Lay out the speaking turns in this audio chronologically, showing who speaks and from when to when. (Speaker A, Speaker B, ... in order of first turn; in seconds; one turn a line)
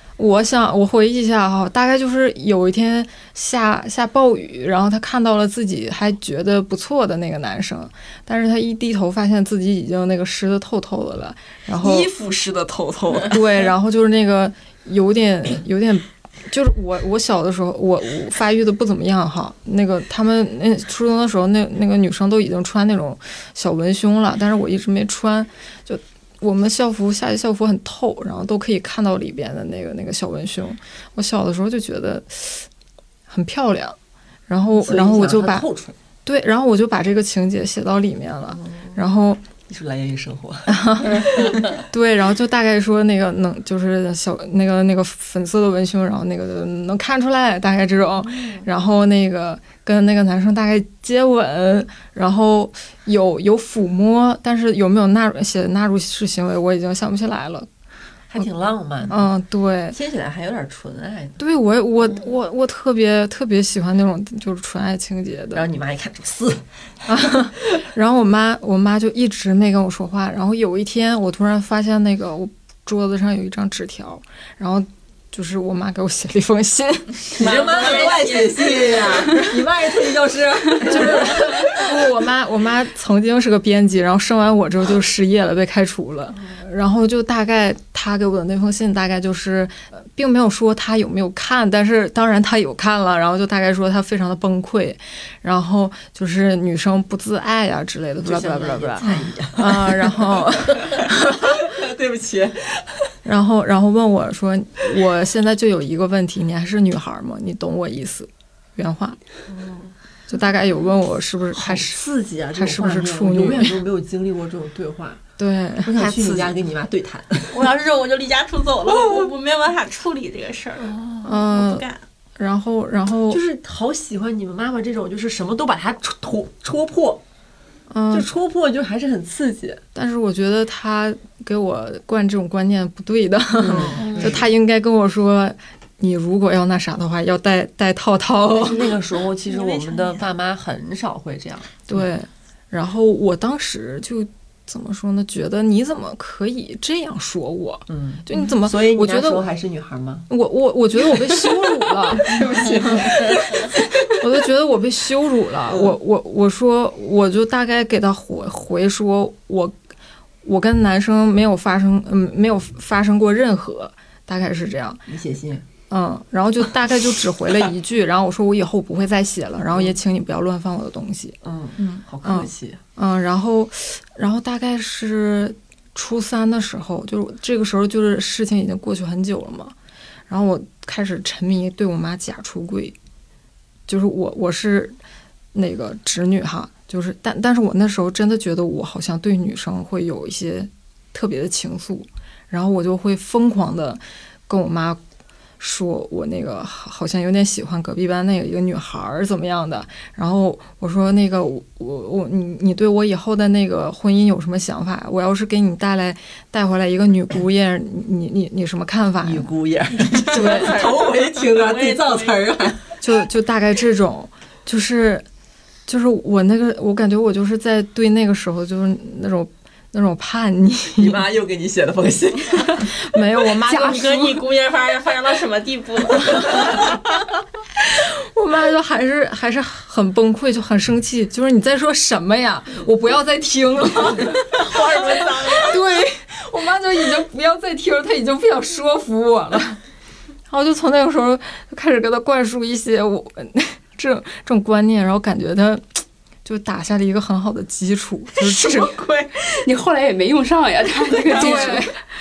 Speaker A: 0.2-12.1
Speaker B: 11.8-13.4
Speaker A: 13.3-32.7
Speaker A: 33.3-34.0
Speaker A: 34.5-35.7
Speaker C: 34.8-36.0
Speaker A: 36.2-39.4
Speaker C: 38.5-39.0
Speaker C: 39.6-41.8
Speaker A: 40.7-57.7
Speaker C: 48.2-48.7
Speaker C: 58.3-59.3
Speaker A: 59.1-60.0
Speaker C: 59.9-61.4
Speaker A: 61.4-65.6
Speaker C: 65.5-66.7
Speaker A: 67.1-77.4
Speaker C: 77.4-81.7
Speaker D: 77.4-79.2
Speaker A: 80.8-101.4
Speaker C: 86.3-86.6
Speaker C: 98.2-103.1
Speaker B: 99.0-99.5
Speaker A: 103.2-109.2
Speaker C: 109.5-109.9
Speaker A: 110.3-112.0
Speaker C: 111.6-115.2
Speaker A: 112.5-113.8
Speaker A: 115.4-115.9
Speaker C: 115.8-117.7
Speaker B: 116.0-116.5
Speaker D: 117.5-122.0
Speaker C: 118.9-119.3
Speaker A: 121.2-121.8
Speaker A: 122.4-123.4
Speaker C: 123.3-127.2
Speaker A: 127.9-128.3
Speaker C: 128.1-129.8
Speaker A: 129.9-138.8
Speaker C: 133.6-134.5
Speaker B: 133.7-134.0
Speaker D: 134.0-134.4
Speaker C: 138.6-142.0
Speaker D: 138.8-140.2
Speaker A: 141.9-149.4
Speaker C: 147.9-150.3
Speaker A: 150.3-152.4
Speaker C: 151.2-151.5
Speaker C: 152.1-153.8
Speaker A: 154.2-159.7
Speaker C: 155.7-156.0
Speaker A: 160.4-165.0
Speaker C: 165.1-165.7
Speaker A: 165.9-171.4
Speaker C: 169.7-170.0
Speaker C: 171.4-172.8
Speaker B: 171.8-172.0
Speaker A: 172.2-179.8
Speaker A: 180.3-183.0
Speaker A: 183.9-185.0
Speaker A: 185.5-195.0
Speaker A: 195.6-209.5
Speaker C: 209.2-212.8
Speaker D: 210.2-212.5
Speaker A: 210.3-210.8
Speaker A: 213.0-215.2
Speaker A: 215.9-221.2
Speaker C: 221.0-222.9
Speaker A: 223.1-224.4
Speaker D: 223.7-227.0
Speaker A: 228.3-234.6
Speaker D: 234.5-235.7
Speaker A: 235.6-239.8
Speaker A: 240.5-248.9
Speaker B: 248.4-249.6
Speaker E: 249.7-251.9
Speaker B: 251.1-251.8
Speaker A: 251.3-251.9